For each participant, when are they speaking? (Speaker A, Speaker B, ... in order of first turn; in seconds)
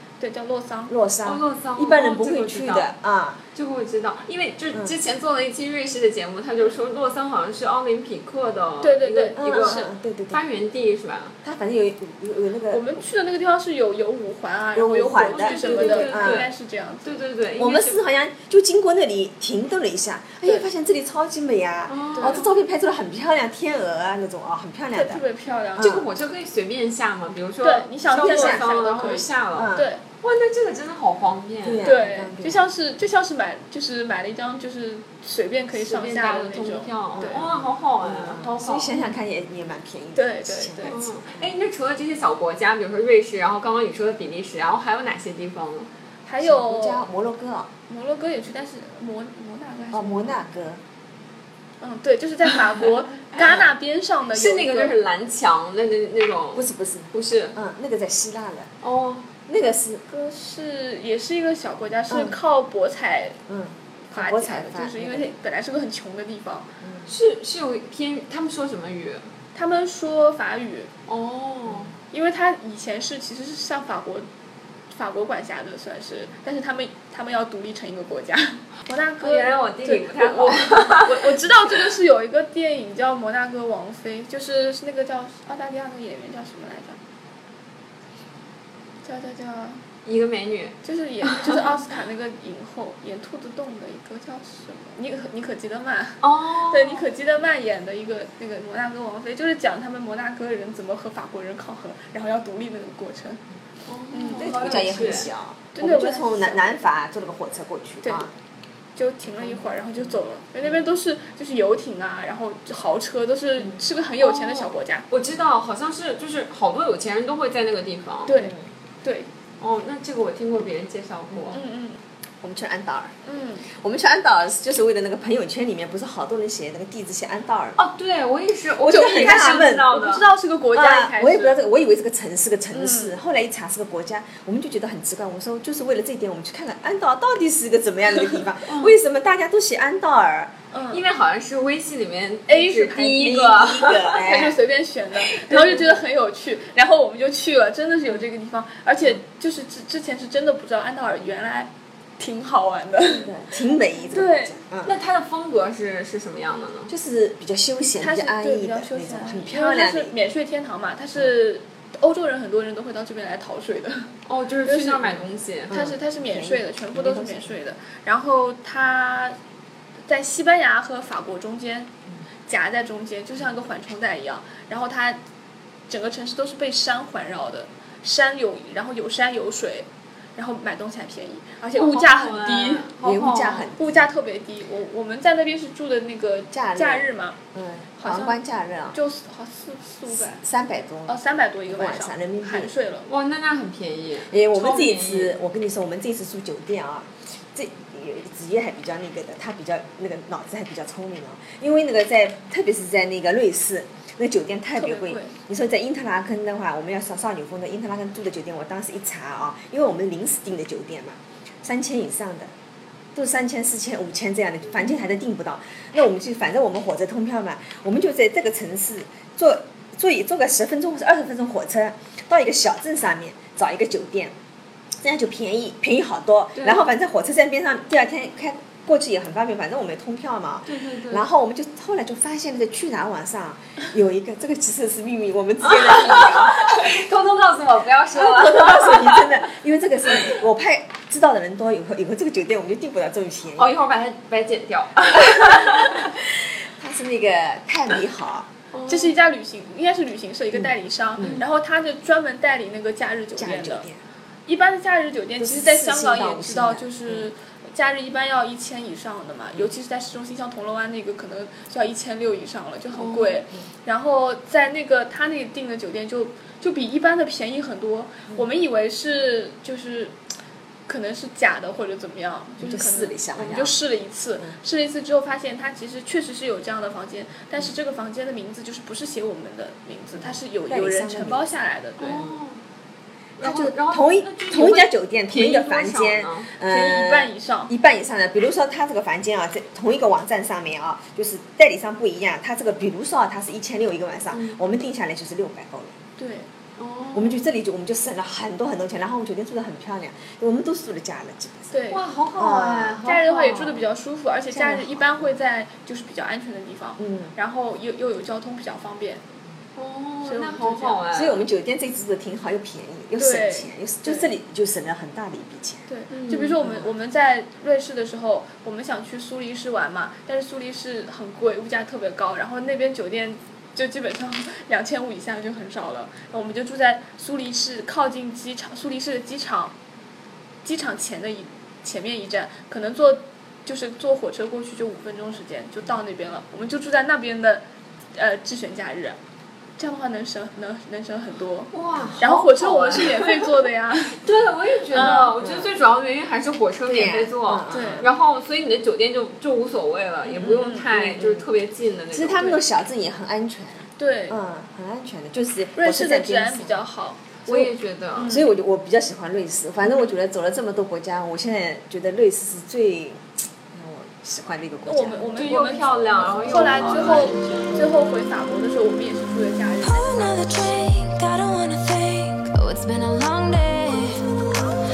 Speaker A: 0.2-0.9, 8.8-9.9, 12.7-17.2, 22.1-22.4, 24.9-25.9, 27.6-30.0, 31.8-37.5, 40.1-41.0, 46.2-47.0, 47.9-50.4, 51.8-54.9, 60.1-63.4, 64.1-66.7, 69.5-70.9, 72.1-74.3, 74.9-87.0, 89.0-89.8, 90.8-103.4, 104.1-105.2, 105.7-106.8, 108.0-108.3, 109.0-115.1, 118.3-119.3, 121.5-122.0, 123.2-123.7, 128.9-131.7, 132.7-133.2, 140.7-141.0, 142.5-143.6, 144.1-153.3, 154.1-154.6, 158.0-164.1, 164.6-165.1, 165.7-169.4, 170.0-171.9, 172.5-175.2, 175.9-187.4, 188.0-190.4, 191.1-193.1, 204.7-205.3, 248.9-253.9, 254.4-270.1, 270.9-282.3, 286.6-287.7, 296.2-296.5, 301.7-302.0, 303.0-309.2, 310.2-311.0, 313.2-314.3, 315.9-329.7, 330.6-337.6, 338.1-339.2, 339.8-344.2, 344.9-345.4, 347.7-348.1, 350.3-350.9, 354.0-354.4, 355.8-357.2, 358.1-358.4, 364.9-370.5
Speaker B: 0.9-3.4, 9.4-10.4, 11.4-13.0, 14.7-16.5, 17.6-25.2, 25.8-26.1, 28.1-28.6, 29.5-29.9, 31.6-32.7, 37.1-41.5, 46.4-47.7, 49.9-50.8, 56.5-58.7, 59.5-60.0, 62.1-62.4, 63.5-65.3, 66.8-67.1, 104.4-108.3, 118.4-118.6, 122.4-127.8, 128.8-129.9, 130.7-140.5, 143.2-144.6, 145.5-145.8, 153.0-154.9, 156.9-160.1, 165.7-167.6, 183.0-184.1, 186.5-189.0, 190.3-192.7, 194.3-212.5, 213.1-224.3, 225.0-236.9, 238.1-243.7, 245.2-248.5, 250.5-251.4, 253.4-254.0, 255.4-257.3, 272.6-273.7, 280.1-281.5, 283.4-295.9, 297.1-301.7, 302.4-303.0, 304.5-305.3, 307.0-307.3, 311.1-315.9, 316.6-316.9, 341.9-342.2, 345.4-345.7, 346.9-348.1, 350.4-351.5, 352.1-356.8, 357.5-357.7, 358.2-365.7, 366.4-367.4
Speaker C: 1.2-2.9, 3.5-11.3, 15.2-16.5, 17.0-18.0, 21.9-22.5, 25.8-31.9, 35.7-39.0, 40.9-45.9, 54.3-57.5, 58.8-59.3, 67.1-69.3, 71.1-71.9, 79.2-81.8, 90.0-91.7, 96.2-97.0, 103.9-105.3, 114.2-118.4, 119.6-121.6, 127.8-130.3, 138.7-138.9, 140.9-144.4, 154.8-156.9, 164.2-165.8, 181.7-183.7, 193.1-195.3, 226.6-226.9, 230.7-231.3, 235.7-239.5, 243.6-246.1, 248.7-249.2, 262.9-263.4, 282.0-282.6, 283.4-286.5, 294.3-294.6, 296.8-297.4, 301.9-303.8, 309.8-311.4, 316.1-316.6, 341.7-343.6, 344.2-352.6, 357.4-358.4, 365.4-367.9
Speaker D: 369.8-374.6